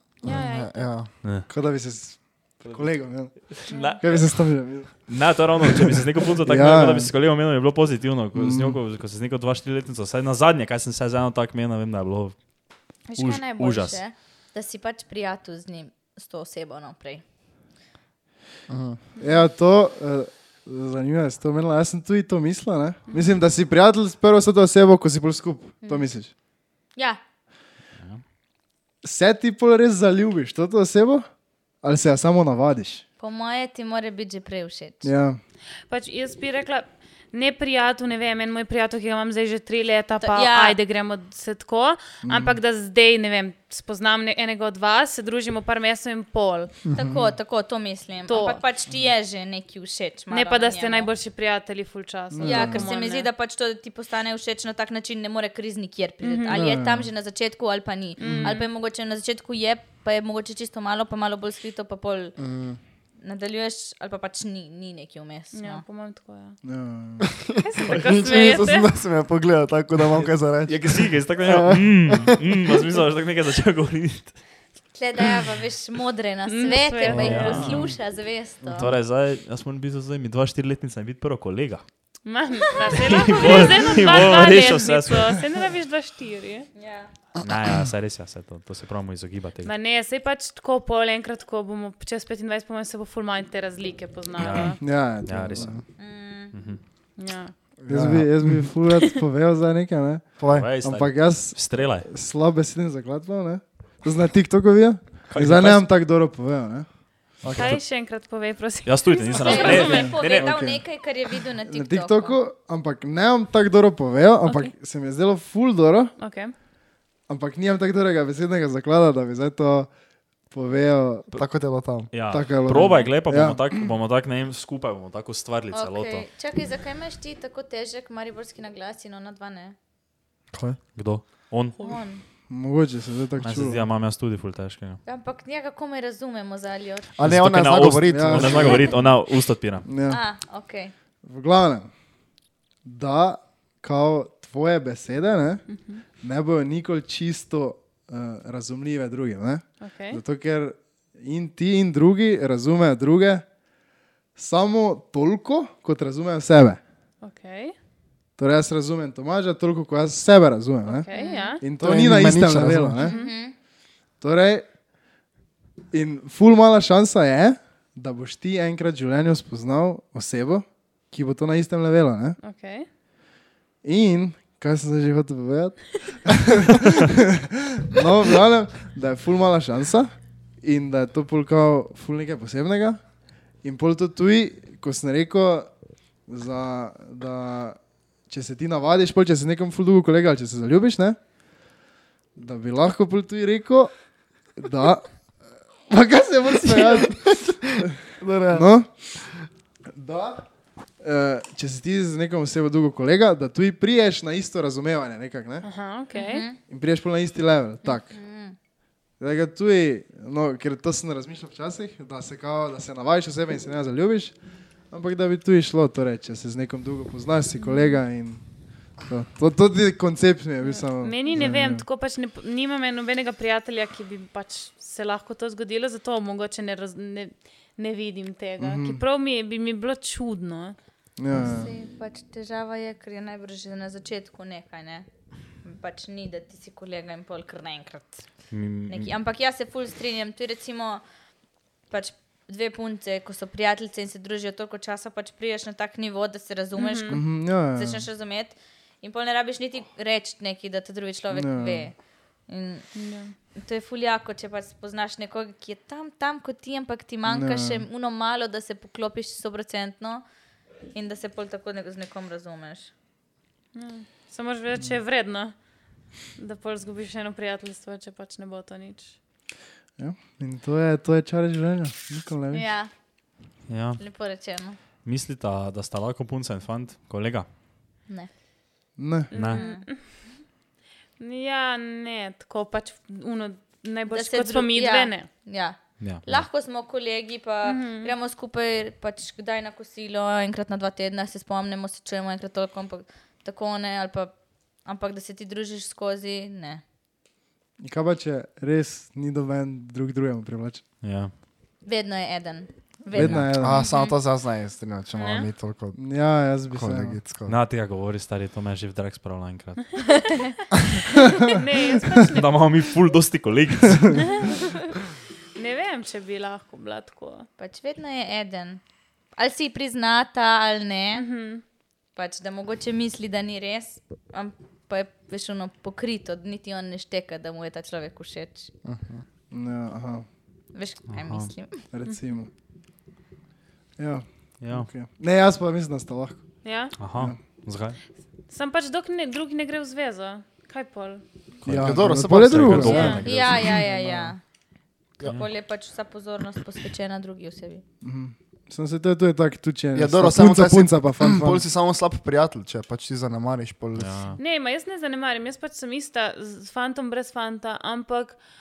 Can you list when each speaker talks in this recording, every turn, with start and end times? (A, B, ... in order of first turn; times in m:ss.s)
0:00.2-0:01.1 A
0:00.2-0:00.9 B
0:01.2-0:01.5 C
0:01.5-0:05.1 D
0:02.6-0:12.4 C
0:03.7-0:04.0 B
0:05.9-0:07.1 D
0:08.4-0:08.8 D
0:13.1-0:17.2 E
0:13.1-0:14.0 C
0:18.7-0:19.0 A
0:19.2-0:26.3 D
0:23.1-0:23.4 B
0:27.0-0:27.2 E
0:29.0-0:31.3 D
0:31.8-0:33.0 D
0:33.2-0:35.1 E
0:35.0-0:35.4 D
0:35.9-0:46.8 B
0:40.2-0:40.8 E
0:42.2-0:42.6 D
0:46.9-0:51.1 E
0:47.0-0:47.3 D
0:48.3-0:48.6 B
0:50.3-0:53.3 B
0:52.3-0:52.8 D
0:52.4-1:02.4 E
0:56.2-0:56.6 B
0:56.5-0:57.0 D
0:58.2-0:58.7 B
0:58.2-0:58.5 D
1:02.4-1:02.8 A
1:03.2-1:05.8 E
1:05.5-1:06.6 B
1:06.6-1:07.3 D
1:07.2-1:12.4 A
1:07.6-1:08.9 B
1:10.6-1:14.4 C
1:14.9-1:18.9 E
1:16.4-1:17.7 B
1:17.1-1:17.9 C
1:17.3-1:17.8 A
1:18.6-1:18.9 A
1:18.7-1:21.8 C
1:22.2-1:26.7 B
1:23.1-1:25.4 C
1:26.8-1:27.1 E
1:27.4-1:29.7 C
1:29.6-1:34.8 B
1:34.4-1:35.8 C
1:34.8-1:35.8 D
1:36.0-1:36.5 E
1:36.5-1:36.8 C
1:37.2-1:37.5 B
1:37.8-1:38.7 A
1:37.9-1:46.9 D
1:40.4-1:40.7 A
1:40.5-1:42.1 C
1:45.3-1:45.8 C
1:47.4-1:47.8 A
1:47.5-1:47.8 C
1:47.5-1:50.2 B
1:48.8-1:50.6 C
1:49.3-1:52.4 E
1:49.7-1:50.9 D
1:51.6-1:56.1 D
1:54.4-1:54.7 B
1:56.2-1:56.5 B
1:57.3-1:59.9 D
2:00.5-2:01.3 D
2:01.4-2:02.1 A
2:02.1-2:06.3 C
2:02.2-2:03.7 D
2:05.7-2:09.8 E
2:10.5-2:10.8 A
2:10.9-2:11.9 C
2:11.8-2:12.2 E
2:12.5-2:13.8 D
2:13.4-2:15.0 C
2:15.0-2:17.1 E
2:17.2-2:18.9 A
2:17.2-2:19.9 C
2:18.1-2:18.9 D
2:19.8-2:20.2 D
2:20.0-2:20.9 E
2:21.2-2:21.9 D
2:22.8-2:25.6 D
2:25.7-2:26.0 B
2:26.2-2:33.5 D
2:29.8-2:30.2 B
2:34.4-2:36.8 D
2:37.2-2:37.8 B
2:38.4-2:41.1 D
2:40.9-2:41.6 B
2:41.1-2:41.6 E
2:41.6-2:43.2 D
2:41.8-2:43.0 A
2:43.0-2:43.3 B
2:43.0-2:43.6 E
2:44.2-2:44.7 D
2:45.9-2:52.4 D
2:52.4-2:52.9 B
2:53.8-3:03.0 D
3:03.6-3:05.7 D
3:06.3-3:11.2 D
3:12.4-3:13.9 D
3:14.6-3:15.1 D
3:15.9-3:17.9 D
3:16.7-3:18.6 A
3:18.5-3:19.2 D
3:20.0-3:20.4 D
3:21.0-3:25.7 D
3:25.6-3:26.4 B
3:26.1-3:26.6 E
3:26.7-3:28.1 D
3:27.9-3:28.6 E
3:29.2-3:34.4 D
3:34.9-3:41.8 D
3:37.6-3:38.0 B
3:40.6-3:50.8 B
3:48.6-3:49.0 D
3:51.2-3:51.7 D
3:51.4-3:55.1 E
3:55.6-3:58.2 E
3:58.5-3:59.1 C
3:58.9-4:01.0 E
4:01.9-4:12.0 E
4:06.8-4:07.2 B
4:07.1-4:08.0 D
4:11.3-4:11.9 D
4:12.5-4:12.9 E
4:13.0-4:13.3 B
4:13.6-4:20.2 E
4:17.3-4:17.8 D
4:20.9-4:22.9 E
4:23.7-4:25.6 B
4:26.4-4:29.2 B
4:30.0-4:32.7 D
4:32.5-4:32.9 E
4:33.7-4:34.0 C
4:34.0-4:34.8 E
4:35.0-4:37.5 C
4:39.0-4:39.3 D
4:39.3-4:40.3 B
4:39.3-4:39.6 C
4:39.4-4:39.9 E
4:41.2-4:45.3 B
4:44.1-4:56.8 E
4:46.0-4:46.4 C
4:47.6-4:48.1 B
4:57.8-5:00.9 D
5:01.0-5:01.3 C
5:01.8-5:04.2 E
5:03.1-5:03.8 D
5:03.2-5:06.0 A
5:05.2-5:05.5 B
5:06.0-5:07.2 D
5:06.7-5:07.6 A
5:07.4-5:10.0 C
5:11.4-5:12.6 B
5:12.3-5:14.3 C
5:14.1-5:14.5 B
5:15.6-5:17.5 B
5:17.6-5:18.8 E
5:19.4-5:21.3 E
5:21.1-5:21.6 B
5:22.1-5:28.7 E
5:28.8-5:29.2 A
5:29.5-5:30.3 D
5:30.7-5:31.8 E
5:31.1-5:31.5 C
5:31.9-5:32.5 D
5:34.0-5:36.4 D
5:34.6-5:34.9 C
5:36.6-5:37.0 B
5:37.0-5:38.0 C
5:37.0-5:37.4 D
5:38.5-5:41.2 B
5:41.6-5:43.8 C
5:41.6-5:44.3 D
5:41.7-5:43.1 A
5:42.9-5:43.2 B
5:43.2-5:44.4 E
5:45.2-5:47.8 E
5:48.0-5:51.6 D
5:50.0-5:54.3 A
5:54.0-5:54.4 C
5:54.4-5:58.4 B